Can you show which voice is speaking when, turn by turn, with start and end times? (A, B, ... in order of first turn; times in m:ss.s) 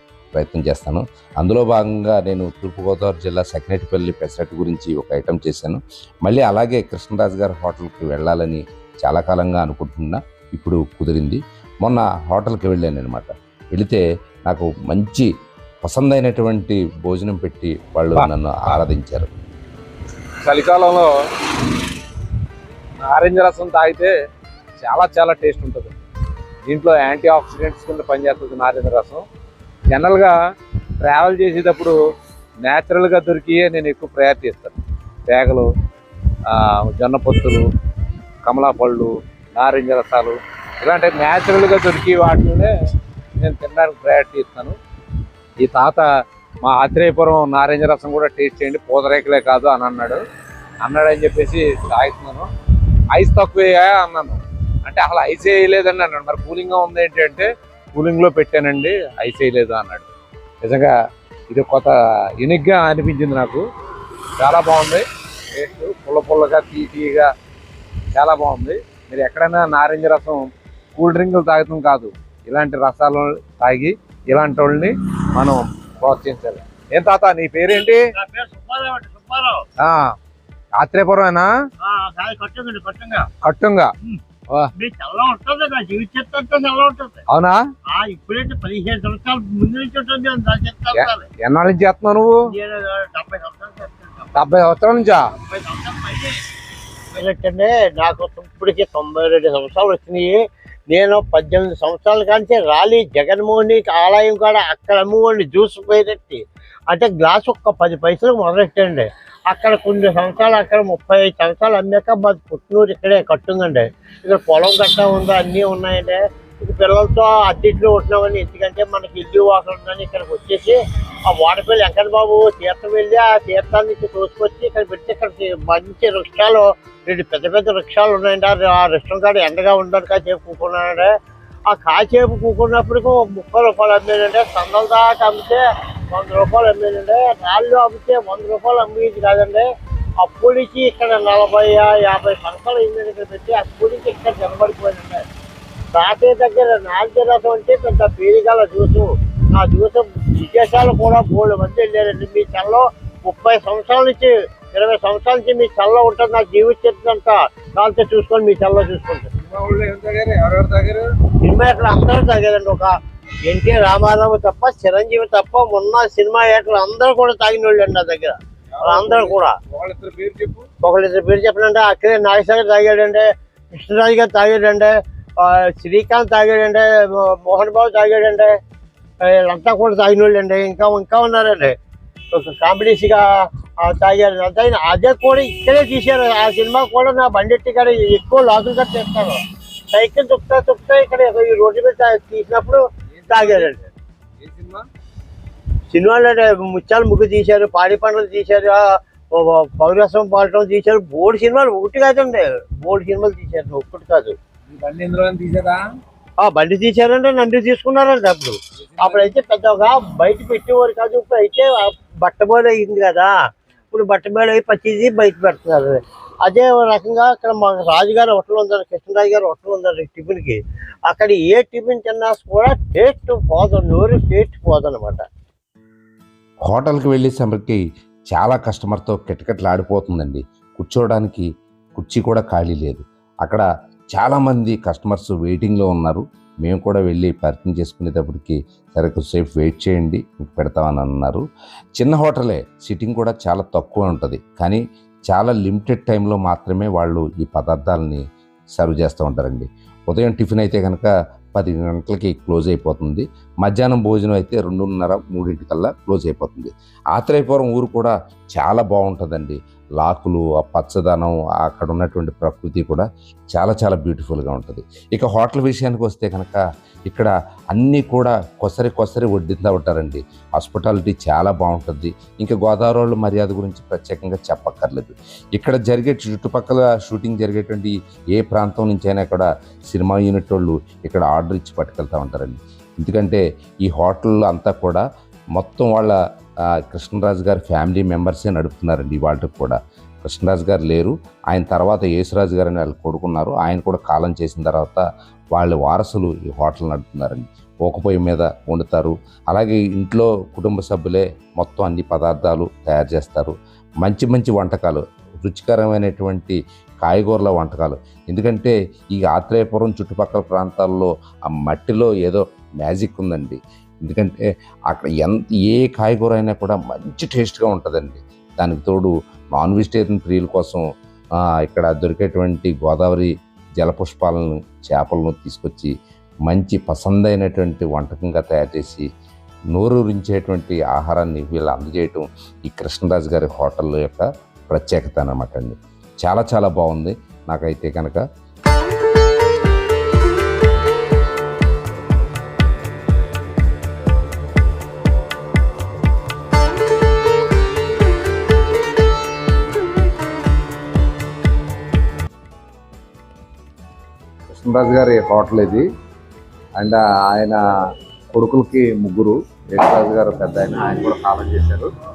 0:00.3-0:15.3 A
0:15.8-0:19.3 A
0:18.1-0:18.8 B
0:20.4-0:21.1 B
0:23.0-0:24.1 B
0:24.8-0:26.0 B
0:26.6-0:29.2 B
0:29.9-0:30.3 B
0:31.0-0:32.0 B
0:32.6-0:34.7 B
0:35.3-0:35.7 B
0:36.5-0:37.6 B
0:38.4-0:42.7 B
0:43.4-0:44.8 B
0:45.6-0:46.1 B
0:46.6-0:50.2 B
0:50.8-0:52.5 B
0:53.1-1:00.0 B
1:00.6-1:00.9 B
1:01.5-1:03.6 B
1:04.4-1:07.3 B
1:08.1-1:18.0 B
1:18.2-1:19.6 C
1:19.8-1:20.1 B
1:20.8-1:21.5 B
1:21.8-1:23.3 C
1:23.4-1:23.9 B
1:24.8-1:27.2 C
1:27.3-1:27.6 B
1:27.9-1:31.2 C
1:30.9-1:32.4 B
1:32.4-1:34.3 C
1:34.3-1:35.3 B
1:35.3-1:36.4 C
1:37.1-2:11.1 C
2:11.7-2:19.7 C
2:20.2-2:25.2 C
2:25.9-2:39.3 C
2:39.4-2:41.1 B
2:41.4-2:49.6 C
2:48.9-2:50.6 B
2:50.8-2:58.6 C
2:59.2-3:01.8 C
3:02.3-3:13.8 C
3:13.1-3:14.9 B
3:15.9-3:24.4 C
3:24.7-3:25.8 B
3:26.4-3:33.3 C
3:28.9-3:29.3 B
3:33.9-3:45.2 C
3:46.6-4:01.4 A
4:02.0-4:08.2 A
4:08.8-4:45.0 A
4:45.5-4:46.2 A
4:46.7-5:20.8 A
5:21.4-5:25.9 A
5:26.5-5:29.1 A
5:29.7-5:38.2 A
5:54.5-5:55.8 B
5:56.8-5:57.6 B
5:58.3-6:01.9 B